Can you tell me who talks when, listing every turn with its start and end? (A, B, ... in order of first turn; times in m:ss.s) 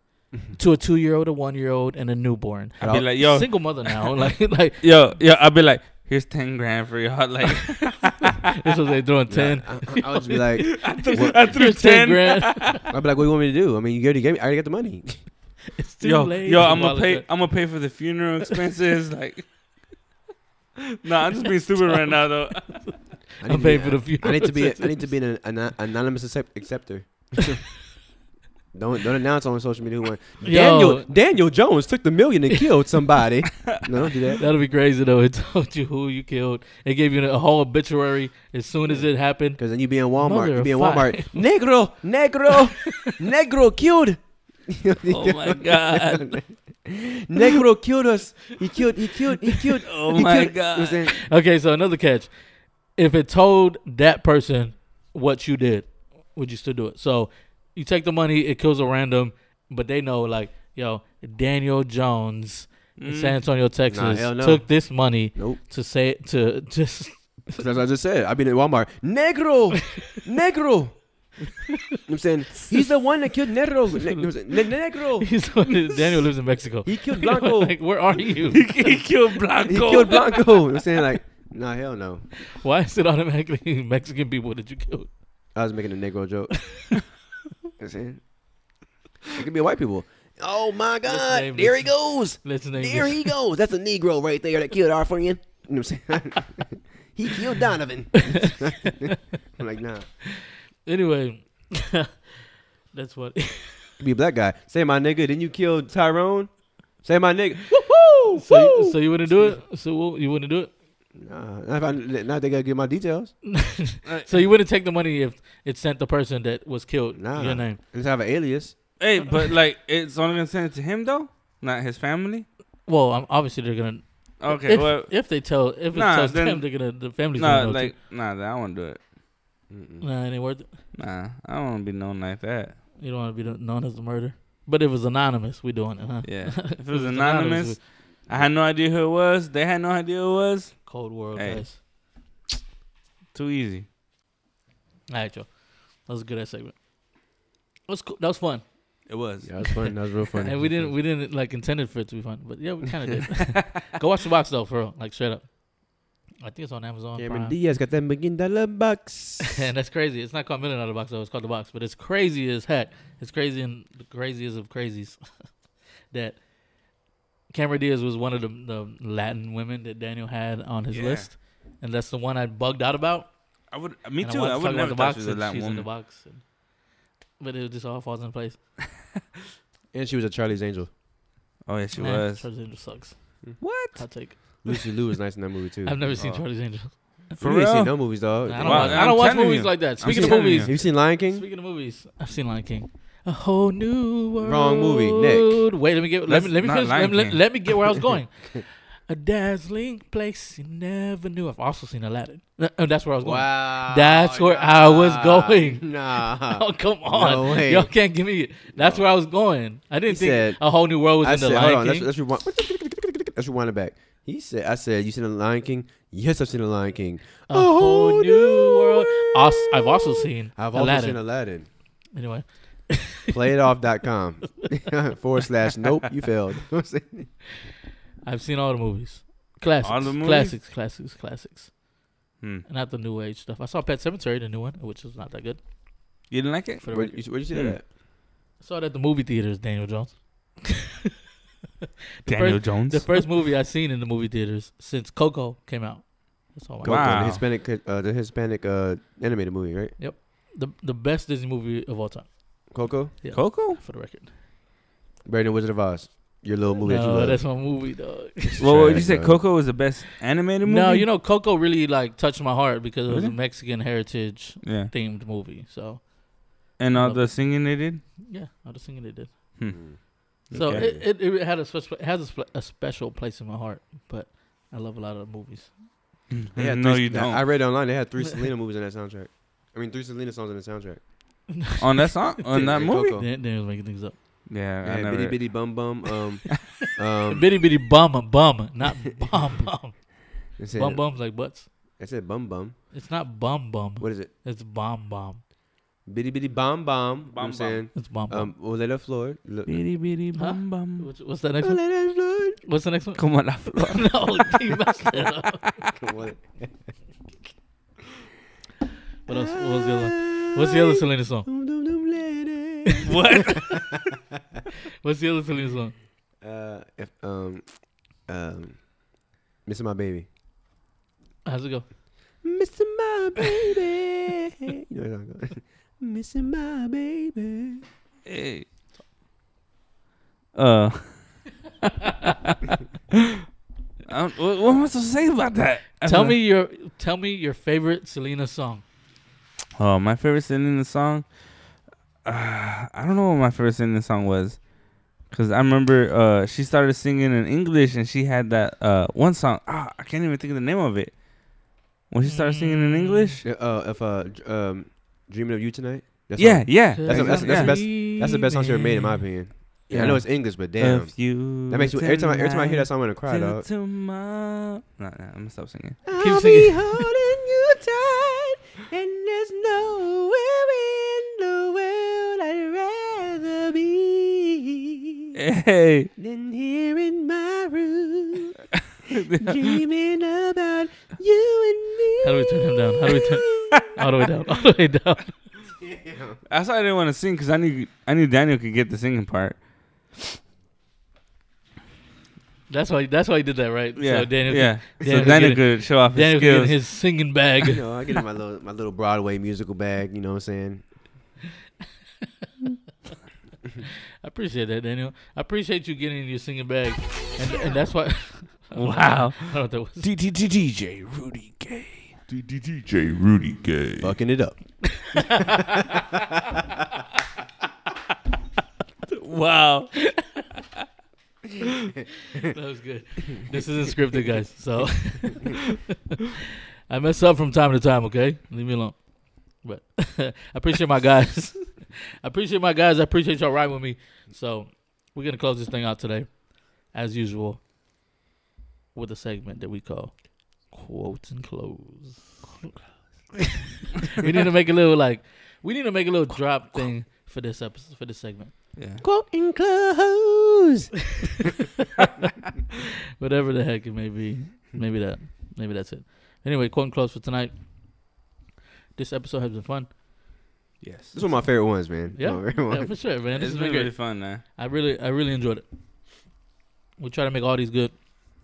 0:00.6-0:04.8 A
0:02.8-0:03.1 B
0:02.8-0:03.9 C
0:04.8-0:08.3 C
0:08.6-0:12.8 A
0:09.3-0:11.6 B
0:10.8-0:12.8 C
0:12.9-0:15.2 B
0:15.7-0:17.3 A
0:16.0-0:19.5 C
0:21.0-0:22.8 C
0:22.1-0:25.1 A
0:23.4-0:27.7 B
0:28.7-0:34.4 B
0:30.4-0:31.1 A
0:34.4-0:39.6 A
0:39.6-0:51.1 B
0:40.2-0:41.4 A
0:42.9-0:43.2 A
0:45.1-0:46.4 C
0:49.8-0:51.0 C
0:51.1-0:52.3 A
0:53.0-1:07.6 A
1:03.0-1:03.4 C
1:03.9-1:05.6 B
1:07.6-1:11.0 B
1:12.1-1:15.3 B
1:15.2-1:19.0 A
1:16.8-1:17.8 B
1:18.5-1:20.4 C
1:19.7-1:22.2 B
1:22.4-1:25.1 A
1:25.5-1:26.6 B
1:27.8-1:28.2 B
1:29.4-1:40.1 B
1:31.0-1:33.3 A
1:38.4-1:39.2 A
1:40.3-1:42.3 A
1:42.9-1:44.0 A
1:44.0-1:49.6 B
1:48.3-1:50.7 A
1:51.2-1:53.3 B
1:53.5-1:57.8 A
1:54.0-1:54.4 C
1:57.2-1:58.8 B
1:59.0-2:02.5 C
2:02.9-2:07.9 A
2:04.4-2:05.2 C
2:05.9-2:06.7 C
2:07.4-2:09.0 C
2:09.7-2:10.0 B
2:10.0-2:10.7 A
2:10.9-2:12.8 C
2:13.0-2:17.8 A
2:16.2-2:21.6 C
2:20.9-2:21.8 A
2:23.3-2:23.9 C
2:25.1-2:26.7 A
2:27.9-2:28.6 A
2:29.1-2:29.5 C
2:29.4-2:30.9 B
2:30.4-2:35.5 A
2:36.4-2:37.6 A
2:37.2-2:39.6 B
2:39.4-2:45.2 A
2:46.1-2:46.4 A
2:47.5-2:53.3 A
2:50.9-2:51.3 C
2:53.7-2:55.9 C
2:54.2-2:56.4 A
2:57.4-2:58.6 A
2:59.9-3:00.9 B
3:01.7-3:02.4 C
3:02.0-3:03.3 A
3:03.6-3:04.0 C
3:04.0-3:04.9 A
3:04.6-3:06.0 B
3:05.8-3:07.0 A
3:06.1-3:06.4 C
3:07.4-3:08.1 C
3:07.4-3:09.2 B
3:08.5-3:18.3 A
3:08.6-3:10.7 C
3:10.0-3:11.4 B
3:14.4-3:15.6 B
3:16.3-3:17.4 C
3:19.1-3:32.1 A
3:23.2-3:27.9 B
3:28.7-3:29.0 B
3:30.1-3:41.7 B
3:37.5-3:41.2 A
3:42.1-3:43.3 A
3:43.3-3:47.3 B
3:48.2-3:51.8 A
3:49.8-3:50.6 C
3:52.7-3:55.6 A
3:56.3-3:56.8 C
3:56.8-3:57.2 A
3:56.9-3:57.9 B
3:57.5-3:57.8 C
3:58.6-4:00.8 A
4:02.2-4:07.2 A
4:02.3-4:03.1 C
4:06.8-4:10.0 B
4:06.8-4:07.4 C
4:10.0-4:14.3 A
4:12.7-4:13.2 B
4:13.3-4:13.8 C
4:15.2-4:17.6 B
4:16.8-4:18.7 A
4:18.5-4:19.4 B
4:18.6-4:21.1 C
4:20.6-4:26.2 A
4:23.1-4:23.3 C
4:24.6-4:24.9 C
4:26.7-4:29.4 A
4:26.8-4:28.0 C
4:29.7-4:30.0 B
4:30.4-4:30.9 C
4:30.5-4:31.0 B
4:30.5-4:35.8 A
4:36.3-4:37.4 C
4:36.6-4:41.0 B
4:41.5-4:42.2 A
4:41.8-4:43.2 C
4:42.5-4:43.3 B
4:43.1-4:44.2 A
4:44.5-4:45.4 C
4:44.8-4:47.5 B
4:47.3-4:50.1 A
4:50.6-4:51.0 B
4:50.7-4:51.7 A
4:52.0-4:52.8 B
4:52.9-4:55.4 A
4:54.0-4:54.3 B
4:56.1-4:59.8 B
4:57.3-4:57.9 C
4:58.0-4:58.5 A
4:59.7-5:01.1 C
5:00.3-5:01.9 A
5:01.6-5:02.6 B
5:02.6-5:05.7 A
5:03.2-5:04.2 C
5:06.0-5:06.9 B
5:09.3-5:11.5 A
5:09.3-5:13.8 B
5:13.0-5:13.9 C
5:15.0-5:16.0 A
5:16.4-5:19.0 B
5:19.6-5:20.3 B
5:21.5-5:21.9 A
5:22.4-5:27.8 B
5:28.2-5:28.7 C
5:30.6-5:32.8 C
5:34.1-5:36.4 C
5:36.0-5:38.8 A
5:39.8-5:41.2 C
5:42.2-5:53.4 C
5:52.2-5:53.4 A
5:53.4-6:03.7 B
5:56.4-5:57.8 C
5:56.9-5:59.2 A
5:59.9-6:06.0 C
6:06.1-6:15.3 B
6:06.2-6:07.1 A
6:15.3-6:16.1 C
6:16.2-6:18.7 B
6:19.1-6:19.8 C
6:19.3-6:23.9 B
6:22.2-6:25.4 A
6:25.8-6:26.4 B
6:26.5-6:30.1 C
6:32.7-6:37.8 A
6:34.0-6:36.8 C
6:35.0-6:35.6 B
6:37.6-6:40.8 B
6:44.2-6:50.1 A
6:48.8-6:52.1 C
6:52.3-6:54.2 D
6:54.0-6:55.0 B
6:55.0-6:55.8 A
6:59.1-7:00.0 C
7:02.3-7:06.2 A
7:06.9-7:17.6 A
7:18.9-7:22.5 A
7:24.0-7:28.5 A
7:28.8-7:29.0 C
7:29.0-7:31.5 B
7:33.2-7:37.6 A
7:39.0-7:39.9 A
7:40.8-7:41.2 C
7:41.1-7:42.9 B
7:42.2-7:45.6 A
7:43.4-7:44.4 C
7:47.0-7:48.0 A